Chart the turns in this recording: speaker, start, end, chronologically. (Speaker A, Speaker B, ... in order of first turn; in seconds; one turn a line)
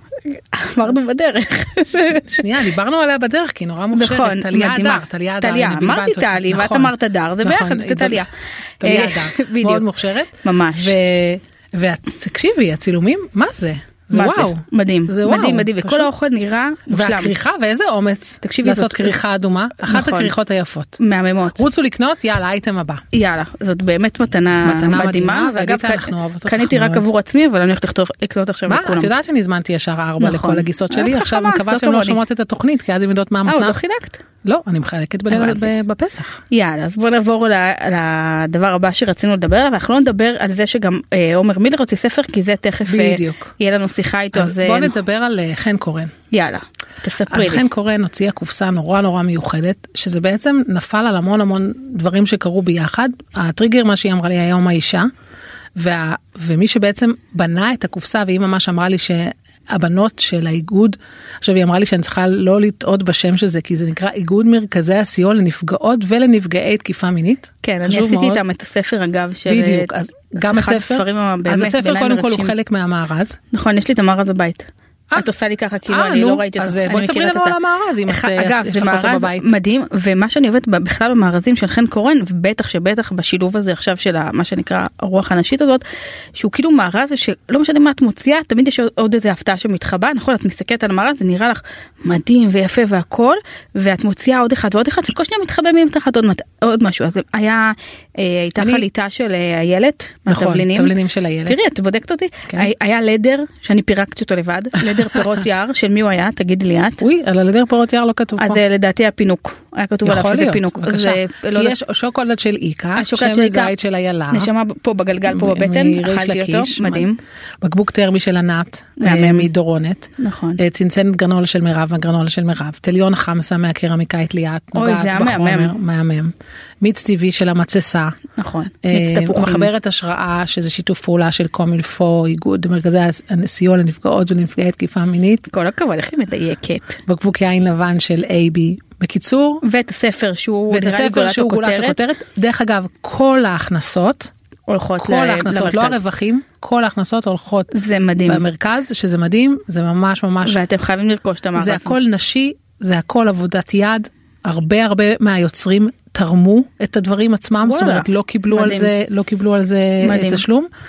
Speaker A: 0.2-2.5
Speaker B: 1.9-8.3
Speaker A: 3.9-8.3
Speaker B: 8.8-16.1
Speaker A: 8.8-9.9
Speaker A: 10.4-10.9
Speaker A: 14.1-17.3
Speaker B: 16.9-21.0
Speaker A: 18.4-19.2
Speaker A: 19.8-20.3
Speaker A: 21.0-21.6
Speaker B: 21.6-23.0
Speaker A: 23.1-29.1
Speaker B: 24.6-27.1
Speaker B: 28.7-33.8
Speaker A: 30.2-32.2
Speaker A: 33.5-34.2
Speaker B: 34.4-36.4
Speaker A: 35.3-35.7
Speaker A: 36.5-44.9
Speaker B: 42.9-43.5
Speaker B: 44.3-46.1
Speaker A: 46.3-47.6
Speaker B: 47.3-55.1
Speaker B: 55.8-68.4
Speaker A: 67.6-72.5
Speaker B: 69.5-73.4
Speaker A: 73.5-85.8
Speaker B: 75.9-79.5
Speaker A: 86.3-100.9
Speaker B: 98.6-98.8
Speaker B: 100.3-101.6
Speaker A: 101.5-107.0
Speaker B: 107.0-108.6
Speaker A: 108.4-111.8
Speaker B: 110.0-114.5
Speaker A: 113.0-113.7
Speaker A: 114.3-117.2
Speaker B: 115.3-117.1
Speaker B: 117.6-128.2
Speaker A: 119.0-119.5
Speaker A: 120.2-120.6
Speaker A: 124.8-125.7
Speaker A: 128.4-129.7
Speaker B: 128.8-135.5
Speaker A: 135.5-137.0
Speaker B: 137.1-139.6
Speaker A: 139.6-142.0
Speaker B: 140.7-144.3
Speaker A: 144.7-146.0
Speaker B: 145.0-147.7
Speaker A: 147.7-148.4
Speaker B: 148.3-150.6
Speaker A: 150.4-152.0
Speaker B: 151.6-160.7
Speaker A: 157.6-158.9
Speaker A: 160.0-160.4